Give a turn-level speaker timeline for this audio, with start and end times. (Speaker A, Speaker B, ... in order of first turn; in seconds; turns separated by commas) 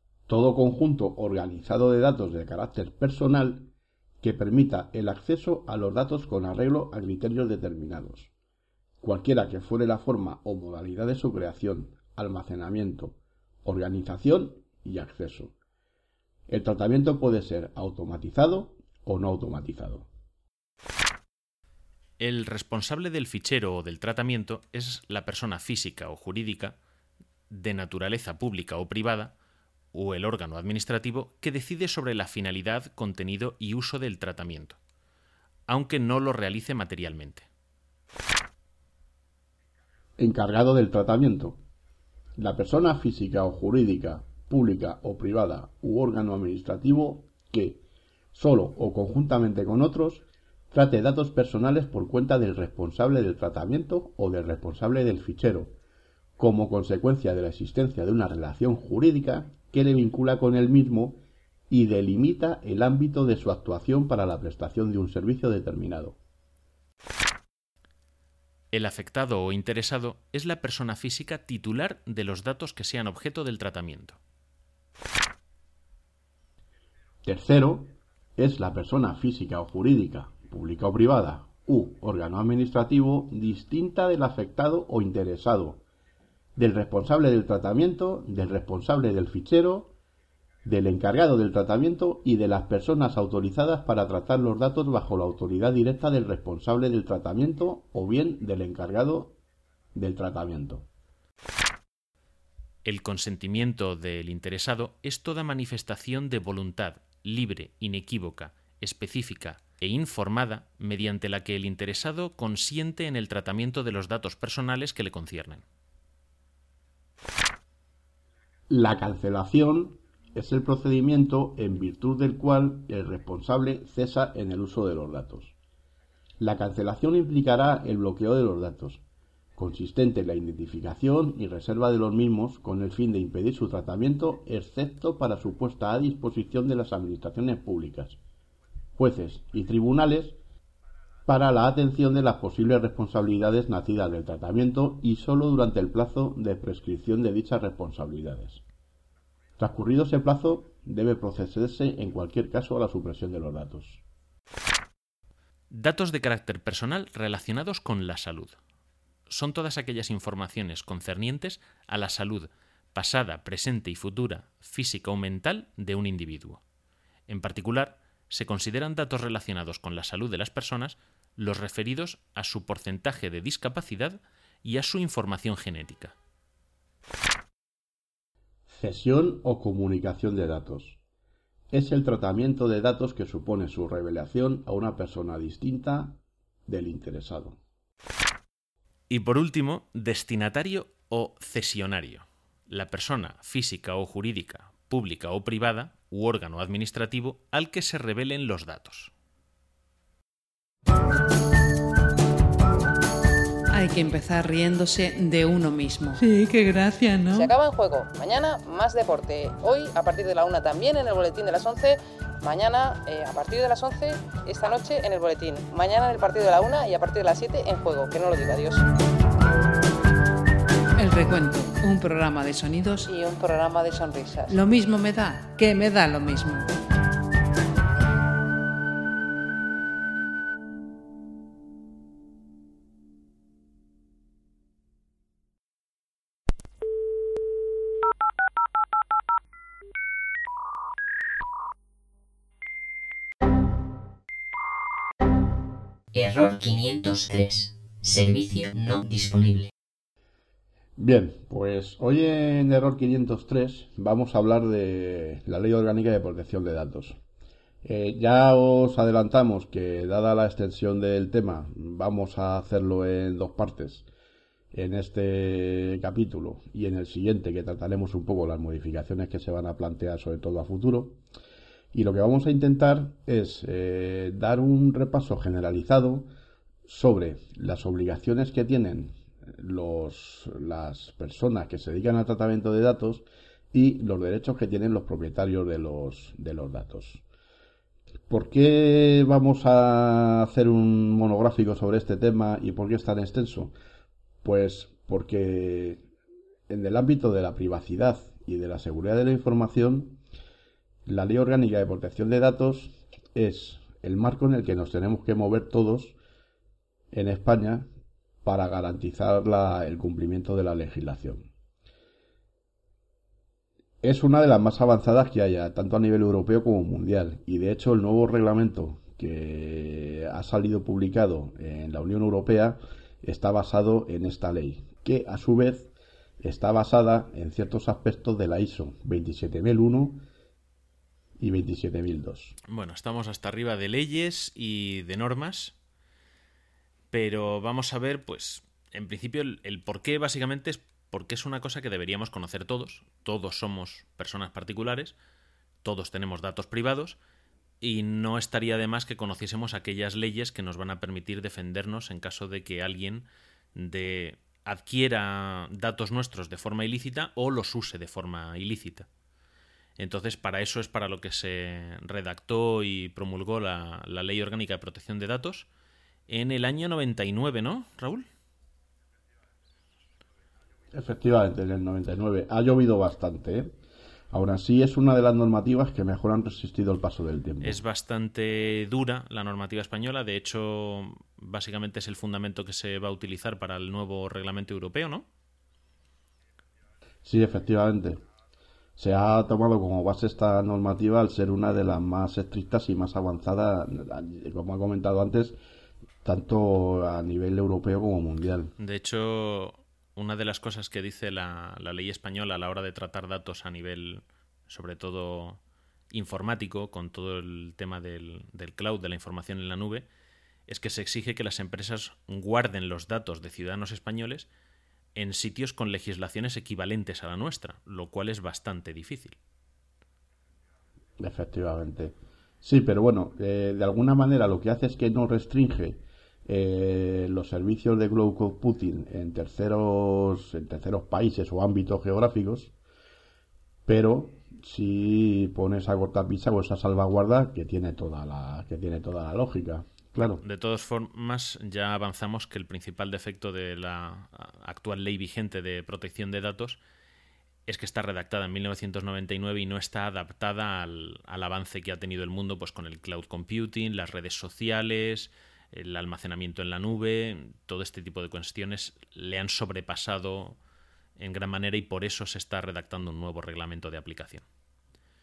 Speaker A: 0.3-8.3, Speaker A: 9.0-15.6, Speaker A: 16.5-20.1, Speaker B: 22.2-26.8, Speaker B: 27.5-29.4, Speaker B: 29.9-34.8, Speaker B: 35.7-37.5, Speaker A: 40.2-41.6, Speaker A: 42.4-55.8, Speaker A: 56.4-66.2, Speaker B: 68.7-74.2, Speaker A: 77.2-85.8, Speaker A: 86.6-89.9, Speaker A: 90.6-99.4, Speaker A: 100.0-100.9, Speaker B: 102.8-115.6, Speaker A: 118.7-125.5, Speaker A: 126.4-129.0, Speaker A: 129.6-138.2, Speaker A: 139.0-140.4, Speaker A: 141.3-148.6, Speaker A: 149.6-154.0, Speaker B: 155.7-158.6, Speaker B: 159.3-166.6, Speaker B: 167.3-176.2, Speaker A: 178.7-181.0, Speaker A: 181.7-187.6, Speaker B: 189.1-199.1, Speaker C: 203.7-207.5, Speaker D: 207.3-218.9, Speaker C: 221.0-223.1, Speaker D: 223.1-224.6, Speaker C: 224.5-226.7, Speaker E: 246.1-249.7, Speaker A: 251.0-257.2, Speaker A: 257.8-264.1, Speaker A: 264.7-271.2, Speaker A: 271.9-276.3, Speaker A: 276.9-287.2, Speaker A: 288.3-293.7, Speaker A: 294.4-296.0, Speaker A: 296.7-300.2, Speaker A: 301.1-306.2, Speaker A: 307.1-307.9, Speaker A: 308.4-311.5, Speaker A: 314.0-325.9, Speaker A: 326.4-330.3, Speaker A: 331.4-332.6, Speaker B: 332.7-335.8, Speaker B: 337.1-345.1, Speaker B: 345.8-347.2, Speaker B: 347.8-359.1, Speaker B: 360.0-365.7, Speaker B: 366.3-368.3, Speaker A: 370.9-373.7, Speaker A: 374.3-377.8, Speaker B: 377.6-385.3, Speaker A: 387.2-388.2, Speaker A: 389.0-395.6, Speaker A: 396.2-398.7, Speaker B: 398.8-405.6, Speaker B: 406.1-410.1, Speaker B: 410.7-414.5, Speaker B: 415.1-419.4, Speaker A: 421.2-432.7, Speaker A: 433.9-440.4, Speaker B: 440.4-446.8, Speaker B: 447.7-460.6, Speaker B: 461.2-464.4